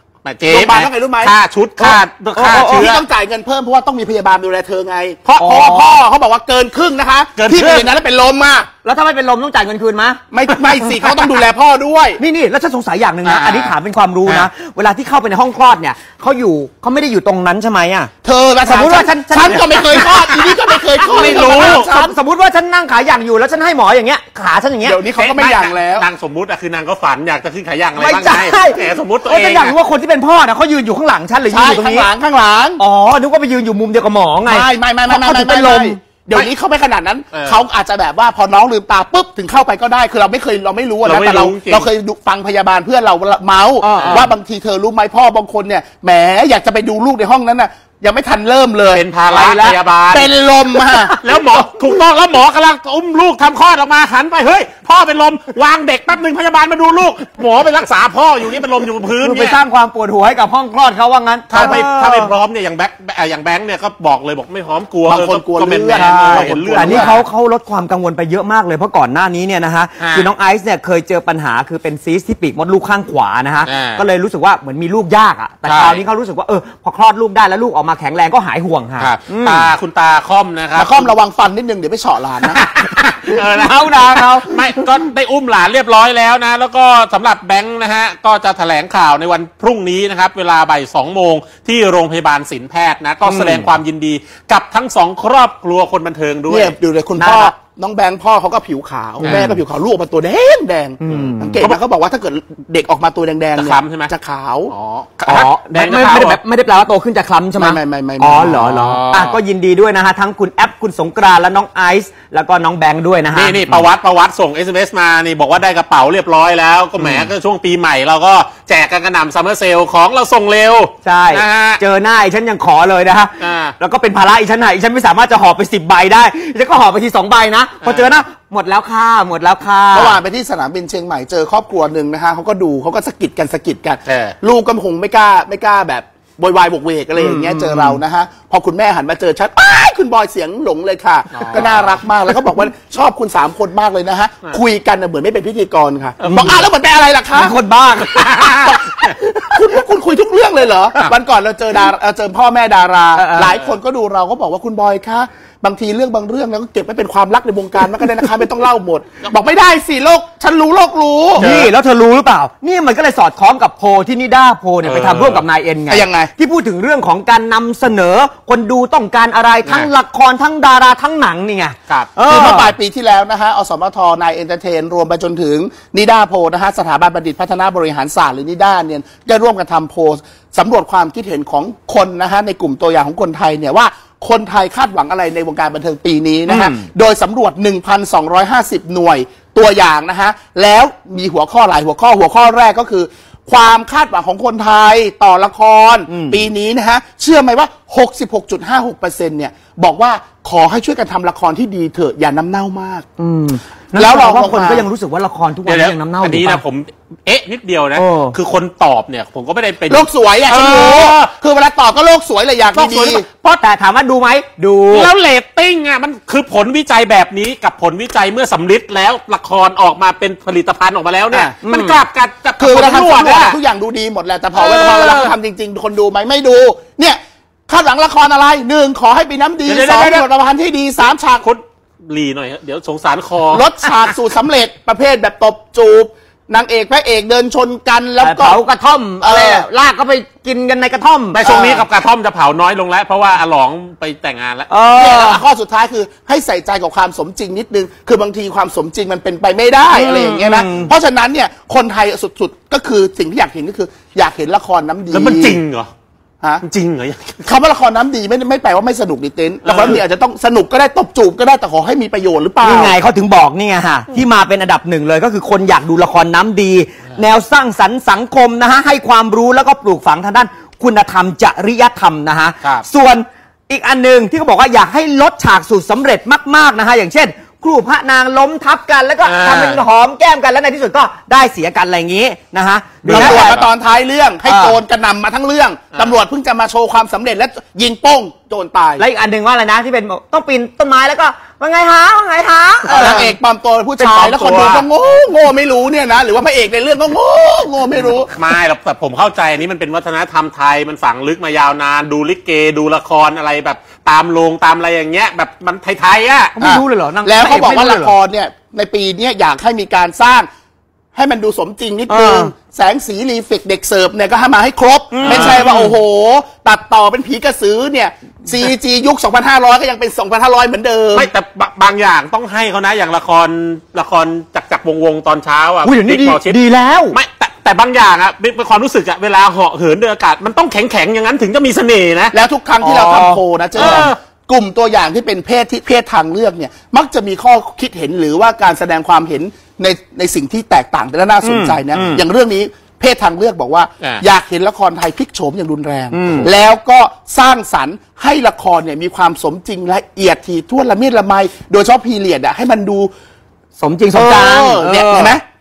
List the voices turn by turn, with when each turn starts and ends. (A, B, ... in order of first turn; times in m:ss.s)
0:00.2-0:03.0 A
0:00.4-0:01.3 B
0:01.8-0:02.9 C
0:02.5-0:08.7 B
0:05.4-0:05.9 C
0:07.4-0:07.9 A
0:08.8-0:10.2 C
0:10.3-0:12.2 B
0:12.2-0:18.1 C
0:13.2-0:14.5 A
0:18.2-0:22.1 B
0:18.7-0:25.0 C
0:21.0-0:21.9 A
0:24.8-0:26.1 B
0:25.2-0:29.8 A
0:28.0-0:32.1 C
0:31.5-0:32.8 B
0:32.8-0:36.0 C
0:34.4-0:49.0 B
0:41.0-0:41.9 A
0:43.8-0:44.3 C
0:43.9-0:44.3 A
0:48.9-0:50.3 A
0:49.3-0:49.8 C
0:50.1-0:51.2 B
0:51.2-0:59.6 A
0:59.2-1:02.3 C
1:01.5-1:07.2 A
1:05.1-1:07.2 B
1:05.9-1:19.7 C
1:10.0-1:10.3 A
1:13.7-1:14.0 A
1:15.7-1:16.0 A
1:19.0-1:21.1 A
1:20.8-1:22.6 B
1:22.5-1:24.9 C
1:23.3-1:36.8 A
1:33.2-1:33.7 C
1:36.5-1:44.7 B
1:37.2-1:37.5 C
1:39.2-1:39.6 C
1:41.0-1:41.6 C
1:41.1-1:41.8 A
1:43.6-1:44.1 A
1:44.7-1:46.4 A
1:45.2-1:53.9 C
1:47.6-1:48.6 B
1:48.4-1:49.4 A
1:53.3-2:01.8 A
1:57.0-1:57.3 C
2:01.0-2:10.2 C
2:03.4-2:03.8 A
2:07.8-2:08.2 A
2:09.9-2:27.6 B
2:14.1-2:14.4 A
2:17.2-2:18.0 C
2:21.3-2:22.0 A
2:26.2-2:26.6 A
2:26.3-2:26.6 C
2:27.3-2:28.8 C
2:28.1-2:29.2 A
2:28.5-2:41.5 B
2:33.2-2:33.5 C
2:41.4-2:52.7 C
2:41.4-2:41.7 A
2:44.8-2:45.4 A
2:45.9-2:46.3 B
2:49.6-2:49.9 A
2:52.3-3:23.1 B
3:06.5-3:06.9 C
3:16.1-3:16.4 C
3:23.2-3:26.6 C
3:24.0-3:24.9 B
3:25.6-3:31.3 A
3:28.0-3:28.4 C
3:29.9-3:33.2 B
3:32.7-3:33.6 A
3:33.6-3:35.1 C
3:34.9-3:43.6 A
3:41.6-3:42.0 C
3:42.6-3:51.5 B
3:44.6-3:45.3 A
3:49.7-3:50.3 A
3:51.4-3:53.6 A
3:53.5-3:58.6 B
3:58.2-4:01.6 C
3:59.2-3:59.7 B
4:01.3-4:04.7 A
4:01.5-4:01.8 B
4:04.7-4:05.4 C
4:04.9-4:15.6 B
4:09.9-4:10.9 C
4:15.1-4:15.9 A
4:16.6-4:17.4 A
4:17.4-4:23.0 B
4:19.6-4:20.0 A
4:22.6-4:43.6 C
4:39.2-4:39.8 A
4:43.0-4:43.6 A
4:43.1-4:49.0 B
4:44.5-4:44.8 C
4:49.0-4:53.3 C
4:52.9-4:58.3 B
4:52.9-4:53.4 A
4:54.0-4:54.8 A
4:58.3-5:06.5 A
5:06.6-5:08.2 C
5:06.6-5:10.5 B
5:11.2-5:21.3 B
5:12.1-5:12.5 C
5:15.1-5:15.6 C
5:15.2-5:15.9 A
5:21.1-5:26.6 A
5:25.8-5:27.2 C
5:27.1-5:32.3 A
5:32.3-5:53.1 B
5:32.8-5:34.1 C
5:33.8-5:34.2 A
5:41.4-5:42.2 C
5:46.1-5:46.5 C
5:46.2-5:46.5 A
5:53.8-5:55.4 C
5:54.1-5:55.4 B